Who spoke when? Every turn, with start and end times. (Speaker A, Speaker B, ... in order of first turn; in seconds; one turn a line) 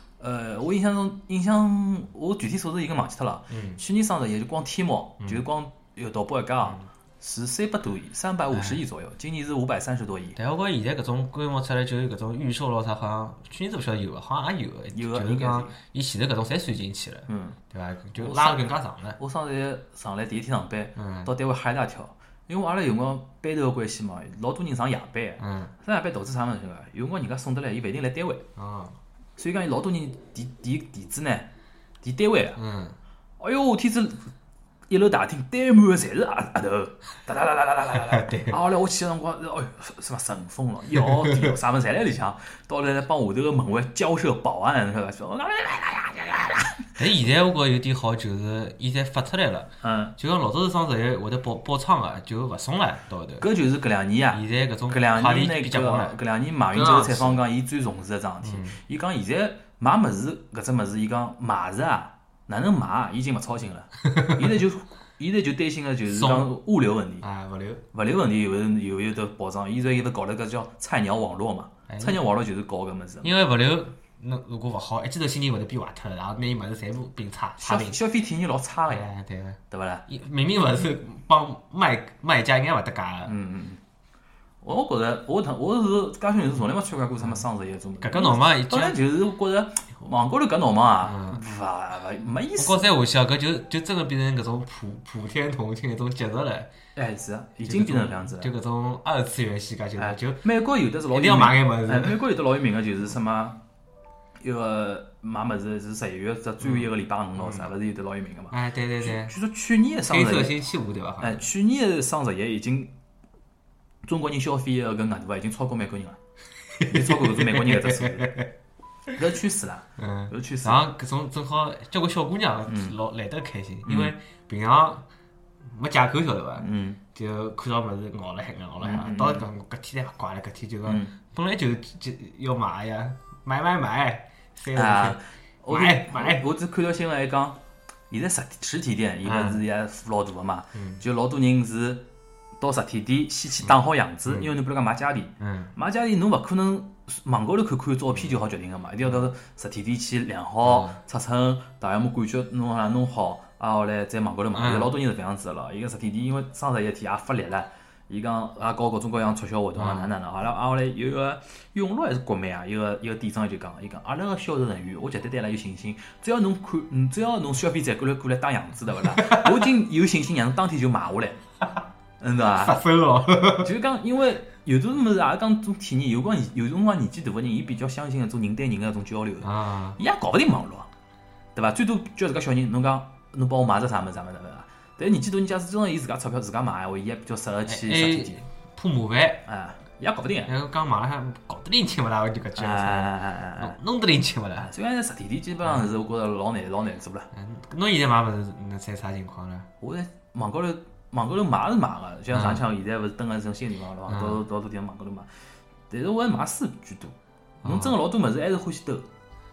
Speaker A: 0.2-10.4
Speaker B: 3.5-3.8
Speaker B: 8.5-8.8
Speaker B: 10.4-19.2
Speaker A: 14.9-15.7
Speaker A: 17.3-17.6
Speaker A: 18.2-18.6
Speaker A: 19.2-28.4
Speaker B: 21.0-21.3
Speaker B: 25.4-25.7
Speaker B: 28.6-29.0
Speaker A: 29.4-31.5
Speaker A: 32.0-32.6
Speaker B: 32.6-33.0
Speaker A: 33.4-34.2
Speaker A: 34.9-46.9
Speaker B: 38.1-38.6
Speaker B: 41.2-41.5
Speaker B: 47.0-53.5
Speaker A: 49.8-50.1
Speaker A: 53.4-67.2
Speaker B: 54.3-56.2
Speaker B: 56.7-57.4
Speaker B: 58.4-58.8
Speaker B: 64.0-64.4
Speaker B: 66.1-66.5
Speaker B: 67.2-67.8
Speaker A: 67.9-73.3
Speaker B: 71.9-72.2
Speaker B: 73.2-78.0
Speaker A: 77.6-79.1
Speaker B: 78.9-83.4
Speaker A: 79.7-80.0
Speaker A: 83.3-83.8
Speaker A: 84.6-92.8
Speaker B: 88.0-89.0
Speaker B: 91.0-91.4
Speaker B: 92.6-96.7
Speaker A: 97.0-98.5
Speaker B: 97.7-100.5
Speaker A: 100.0-103.6
Speaker B: 101.1-102.2
Speaker A: 104.4-110.6
Speaker B: 107.4-107.7
Speaker B: 108.5-109.3
Speaker B: 110.1-111.4
Speaker A: 111.2-112.9
Speaker A: 114.0-116.2
Speaker B: 116.8-118.5
Speaker A: 116.9-118.3
Speaker A: 119.2-120.8
Speaker B: 120.0-125.1
Speaker A: 122.7-122.9
Speaker A: 123.9-124.1
Speaker B: 125.7-136.4
Speaker A: 126.6-127.0
Speaker A: 128.8-129.5
Speaker A: 130.9-131.1
Speaker A: 134.7-137.6
Speaker A: 138.1-142.1
Speaker B: 139.2-139.6
Speaker B: 140.7-141.0
Speaker A: 142.6-171.4
Speaker B: 145.4-145.7
Speaker B: 150.6-151.0
Speaker B: 154.5-154.9
Speaker B: 159.8-160.1
Speaker B: 169.2-169.6
Speaker A: 172.2-172.8
Speaker B: 172.6-173.7
Speaker A: 173.6-180.9
Speaker B: 179.4-180.0
Speaker A: 181.6-188.4
Speaker B: 187.7-189.5
Speaker A: 189.5-190.5
Speaker B: 190.5-194.7
Speaker A: 192.6-193.8
Speaker A: 194.7-197.3
Speaker B: 195.7-195.9
Speaker B: 197.3-199.7
Speaker A: 199.8-205.3
Speaker B: 202.3-202.6
Speaker B: 204.1-204.4
Speaker A: 205.9-209.1
Speaker B: 207.6-207.9